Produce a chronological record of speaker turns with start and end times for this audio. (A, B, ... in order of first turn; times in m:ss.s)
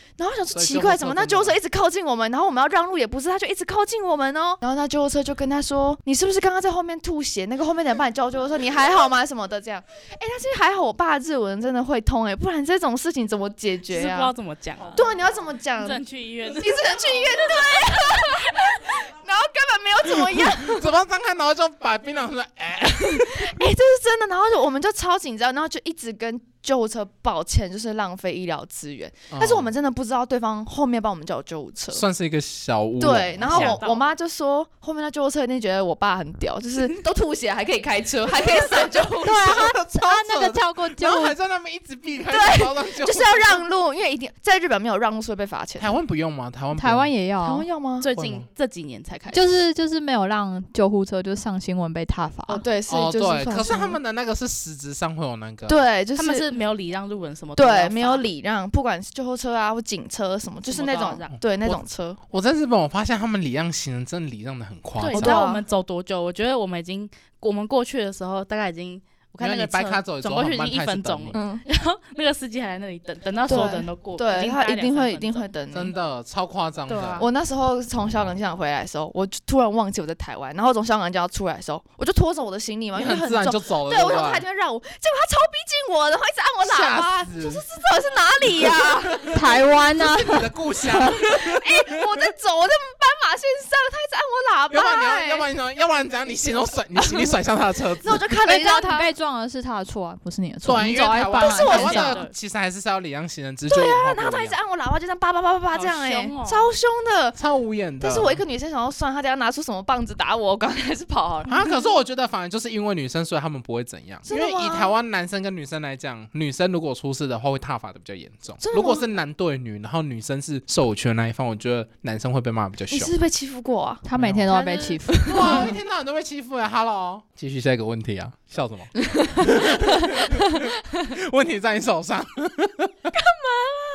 0:00.2-0:14.3 A
0:00.5-0:01.6 B
0:13.9-0:15.0 C
0:14.9-0:20.9 A
0:15.8-0:16.9 C
0:20.0-0:23.6 B
0:23.0-0:32.0 A
0:29.3-0:29.7 B
0:31.9-0:33.8 B
0:33.0-0:39.6 A
0:33.5-0:34.0 C
0:39.2-0:41.4 D
0:39.3-0:43.6 B
0:42.3-0:46.0 A
0:45.8-0:47.1 B
0:46.7-0:47.6 D
0:47.4-0:48.1 A
0:48.0-0:49.5 C
0:48.1-0:48.5 B
0:49.3-0:52.6 D
0:52.5-0:54.0 A
0:52.9-0:55.8 B
0:55.7-0:56.6 A
0:56.1-0:58.3 C
0:57.6-1:02.2 A
1:00.6-1:01.4 C
1:01.3-1:05.4 B
1:05.0-1:15.5 C
1:05.1-1:05.6 A
1:09.4-1:11.4 B
1:11.3-1:11.6 A
1:13.4-1:15.9 A
1:15.7-1:17.3 B
1:16.9-1:17.3 C
1:17.2-1:29.4 A
1:22.9-1:24.4 B
1:26.6-1:27.6 B
1:28.4-1:32.3 B
1:29.3-1:31.0 D
1:31.2-1:35.5 A
1:34.7-1:38.2 B
1:37.0-1:37.3 A
1:38.0-1:39.1 A
1:38.4-1:42.2 D
1:40.6-1:44.6 B
1:41.4-1:42.2 A
1:41.6-1:42.3 C
1:43.7-1:47.4 A
1:45.7-1:46.7 C
1:47.4-1:48.4 B
1:48.0-1:51.7 A
1:51.5-2:03.1 B
1:54.2-1:55.0 A
1:58.6-1:59.0 A
2:02.9-2:05.7 A
2:04.0-2:05.7 D
2:04.1-2:04.6 B
2:05.3-2:13.0 B
2:09.2-2:10.2 A
2:13.3-2:13.8 A